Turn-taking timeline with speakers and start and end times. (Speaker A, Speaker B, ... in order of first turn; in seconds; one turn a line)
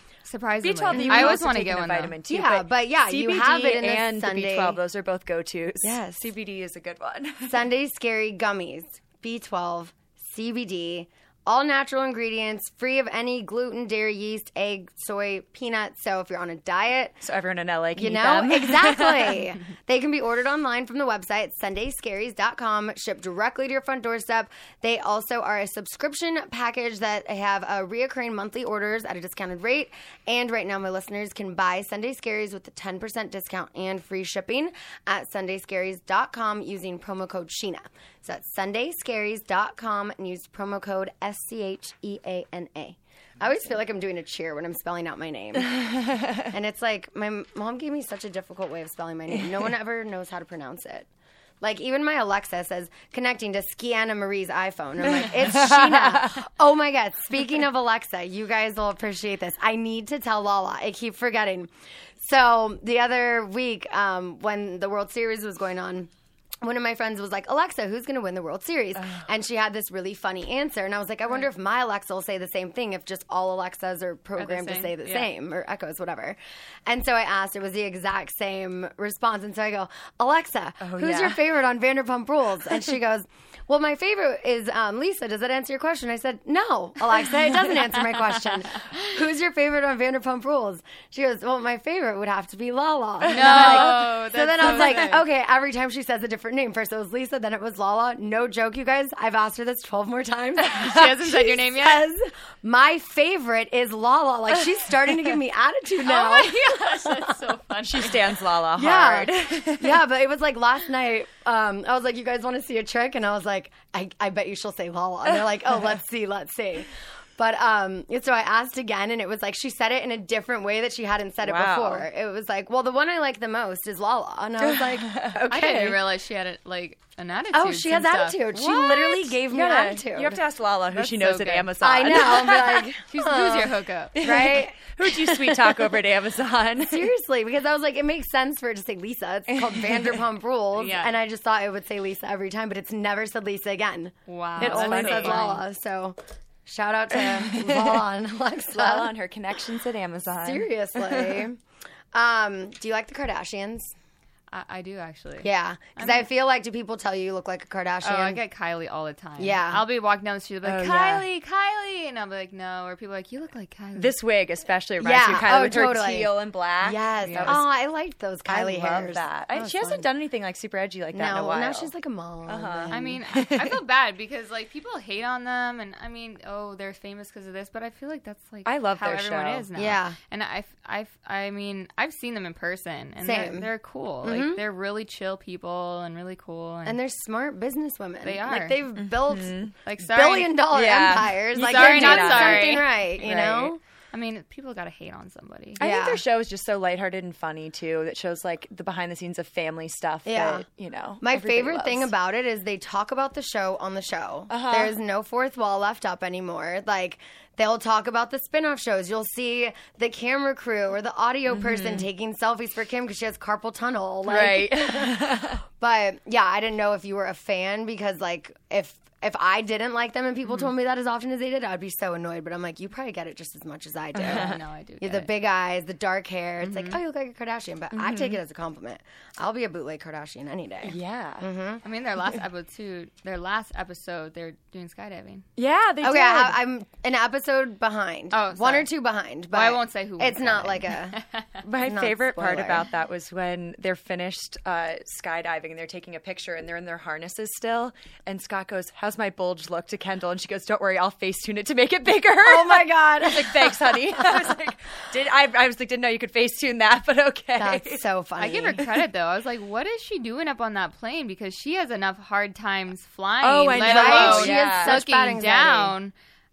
Speaker A: 0.2-2.2
Speaker B: 0.6-7.6
Speaker C: 0.9-1.4
Speaker C: 2.3-4.8
Speaker C: 5.8-6.3
Speaker C: 7.5-17.2
Speaker B: 17.2-19.5
Speaker C: 18.0-45.9
Speaker B: 45.6-46.5
Speaker C: 46.5-51.1
Speaker C: 51.6-66.1
Speaker B: 55.0-56.5
Speaker C: 66.6-107.3
Speaker A: 74.4-75.3
Speaker B: 80.8-81.4
Speaker B: 93.3-95.1
Speaker A: 93.3-95.2
Speaker A: 100.7-102.0
Speaker A: 106.0-108.4
Speaker B: 107.8-110.0
Speaker C: 108.8-125.2
Speaker B: 121.4-122.1
Speaker B: 124.6-126.0
Speaker A: 125.5-128.9
Speaker C: 127.5-130.4
Speaker B: 128.6-132.9
Speaker A: 130.9-131.7
Speaker C: 131.8-135.8
Speaker A: 133.1-134.2
Speaker B: 134.2-137.1
Speaker C: 136.8-149.1
Speaker B: 139.5-140.2
Speaker A: 140.8-141.2
Speaker A: 144.3-145.6
Speaker B: 144.6-145.5
Speaker B: 147.1-148.0
Speaker B: 148.7-151.4
Speaker C: 150.3-151.6
Speaker C: 152.1-153.9
Speaker A: 154.5-156.3
Speaker C: 155.4-158.4
Speaker A: 158.0-164.2
Speaker C: 159.4-159.8
Speaker B: 160.6-161.3
Speaker B: 163.9-167.7
Speaker C: 165.0-170.1
Speaker A: 167.2-167.6
Speaker B: 168.5-171.9
Speaker C: 171.1-173.2
Speaker B: 172.5-173.8
Speaker A: 172.9-187.0
Speaker B: 178.7-179.7
Speaker C: 179.8-180.2
Speaker C: 183.2-183.7
Speaker C: 184.2-184.6
Speaker C: 186.8-193.8
Speaker A: 188.2-188.8
Speaker B: 188.9-189.7
Speaker A: 189.8-190.6
Speaker B: 190.7-193.7
Speaker A: 191.6-193.0
Speaker A: 194.1-195.8
Speaker B: 195.8-202.1
Speaker C: 195.8-196.2
Speaker C: 200.2-200.7
Speaker C: 201.2-231.8
Speaker B: 204.5-205.0
Speaker B: 211.5-212.1
Speaker B: 214.3-215.6
Speaker B: 224.2-224.6
Speaker A: 224.2-225.3
Speaker A: 226.6-227.0
Speaker B: 227.9-228.4
Speaker B: 230.8-231.5
Speaker A: 231.8-235.4
Speaker B: 235.6-236.6
Speaker C: 236.0-242.8
Speaker A: 238.3-238.9
Speaker A: 239.5-241.4
Speaker B: 241.7-258.0
Speaker C: 252.4-254.5
Speaker C: 257.6-258.8
Speaker A: 258.4-266.1
Speaker B: 263.4-265.0
Speaker C: 263.8-265.9